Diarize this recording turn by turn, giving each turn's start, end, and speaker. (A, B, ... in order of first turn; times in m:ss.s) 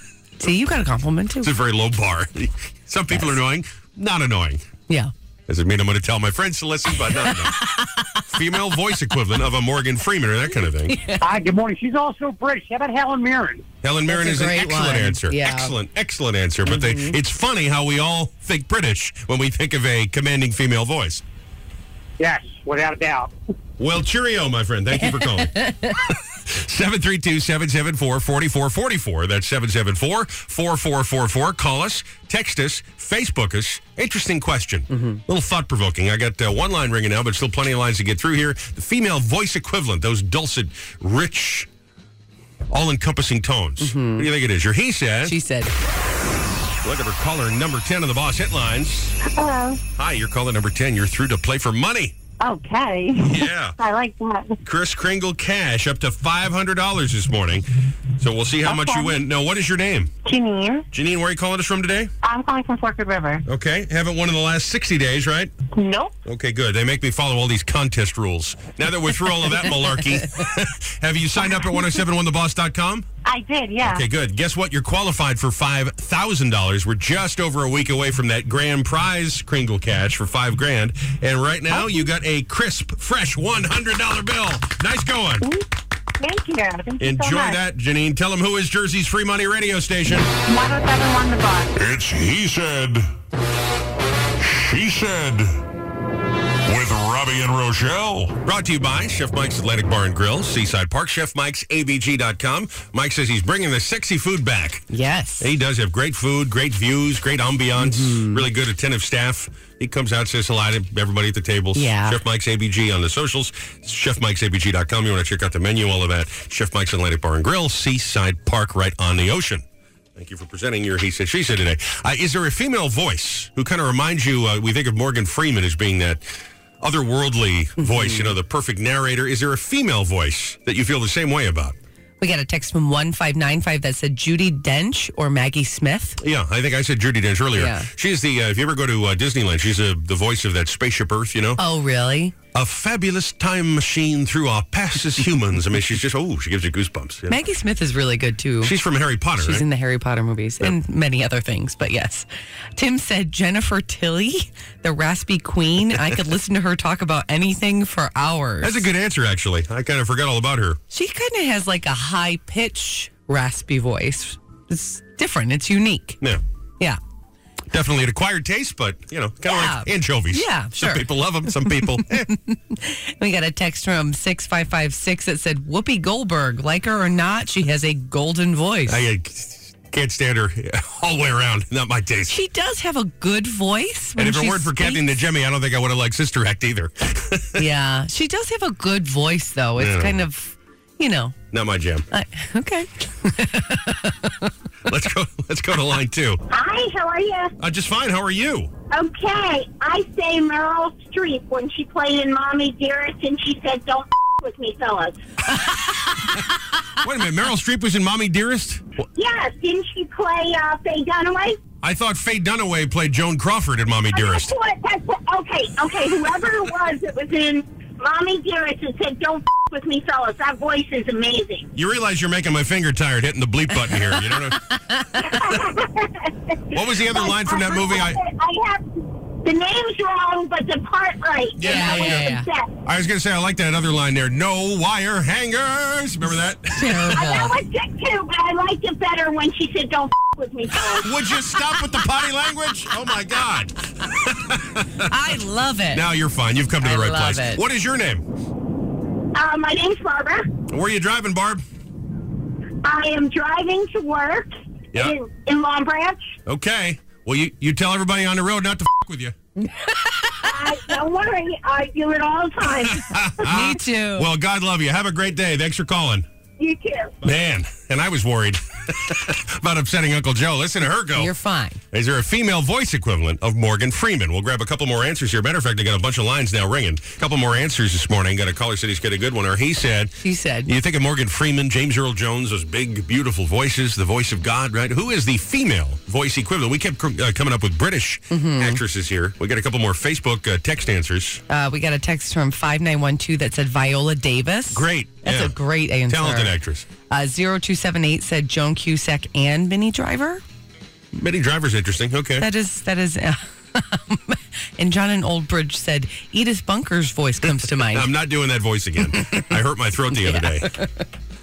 0:00.4-0:01.5 A
0:01.4-0:04.7 B
0:05.5-0:07.6 B
0:07.3-0:08.2 A
0:08.2-0:11.0 B
0:10.9-0:11.2 A
0:11.2-0:13.7 C
0:13.8-0:21.2 B
0:14.1-0:15.7 A
0:16.6-0:17.2 A
0:22.2-0:23.3 C
0:23.8-0:41.7 B
0:25.0-0:26.0 A
0:34.9-0:35.2 A
0:42.7-0:45.4 B
0:43.8-0:44.3 A
0:45.2-0:45.7 A
0:46.8-0:49.2 B
0:49.3-0:49.8 D
0:50.0-0:52.1 B
0:52.4-0:54.6 D
0:53.2-0:53.8 B
0:54.6-1:00.1 B
0:58.6-0:59.2 D
1:00.2-1:00.9 D
1:00.9-1:02.1 B
1:02.2-1:03.4 D
1:03.5-1:05.5 B
1:05.8-1:06.2 D
1:06.3-1:13.1 B
1:13.2-1:14.1 D
1:13.8-1:25.5 B
1:21.7-1:22.1 D
1:26.2-1:27.6 D
1:27.0-1:30.3 B
1:30.4-1:31.7 D
1:31.8-1:33.1 E
1:34.4-1:35.6 E
1:36.7-1:38.4 E
1:38.4-1:44.8 B
1:44.9-1:45.5 A
1:45.4-1:59.6 B
1:47.8-1:48.5 A
1:51.8-1:52.2 A
2:00.2-2:06.3 B
2:06.8-2:11.8 B
2:07.8-2:08.3 A
2:12.2-2:16.2 A
2:16.2-2:21.6 B
2:17.6-2:17.9 A
2:21.6-2:22.4 A
2:22.5-2:27.4 B
2:27.3-2:28.8 A
2:28.6-2:29.6 B
2:29.4-2:38.9 A
2:38.6-2:40.8 B
2:40.9-2:46.2 A
2:47.7-2:52.3 B
2:49.4-2:59.0 A
2:58.9-3:02.4 B
3:02.3-3:05.2 A
3:04.2-3:07.6 B
3:07.6-3:11.4 A
3:09.8-3:10.2 B
3:11.5-3:12.1 B
3:12.1-3:14.5 A
3:14.9-3:16.4 B
3:16.5-3:17.5 F
3:17.6-3:18.7 B
3:18.9-3:25.2 F
3:27.0-3:29.0 B
3:29.2-3:31.6 F
3:31.8-3:34.5 B
3:34.1-3:41.7 F
3:41.8-3:44.6 B
3:44.0-3:45.2 A
3:45.2-3:48.8 F
3:46.7-3:48.2 B
3:49.4-3:52.7 F
3:51.6-3:52.3 B
3:51.6-3:52.5 A
3:52.9-3:57.2 B
3:56.7-3:57.6 A
3:57.1-4:01.1 F
4:01.0-4:05.1 B
4:01.5-4:02.0 A
4:05.0-4:06.1 A
4:05.9-4:08.2 B
4:06.8-4:07.6 A
4:09.4-4:10.5 F
4:10.7-4:11.6 B
4:12.8-4:16.4 F
4:16.5-4:19.4 B
4:20.0-4:20.4 A
4:20.4-4:23.5 F
4:22.8-4:26.3 B
4:23.4-4:24.3 A
4:26.6-4:27.1 F
4:27.2-4:31.3 B
4:31.2-4:31.8 A
4:31.9-4:40.1 B
4:40.2-4:40.7 A
4:40.7-4:51.4 B
4:48.3-4:48.8 A
4:51.5-4:56.6 A
4:54.7-4:55.5 B
4:56.1-4:56.9 B
4:57.1-5:00.4 A
5:01.1-5:02.5 B
5:02.4-5:08.1 A
5:07.6-5:10.7 B
5:10.2-5:11.1 A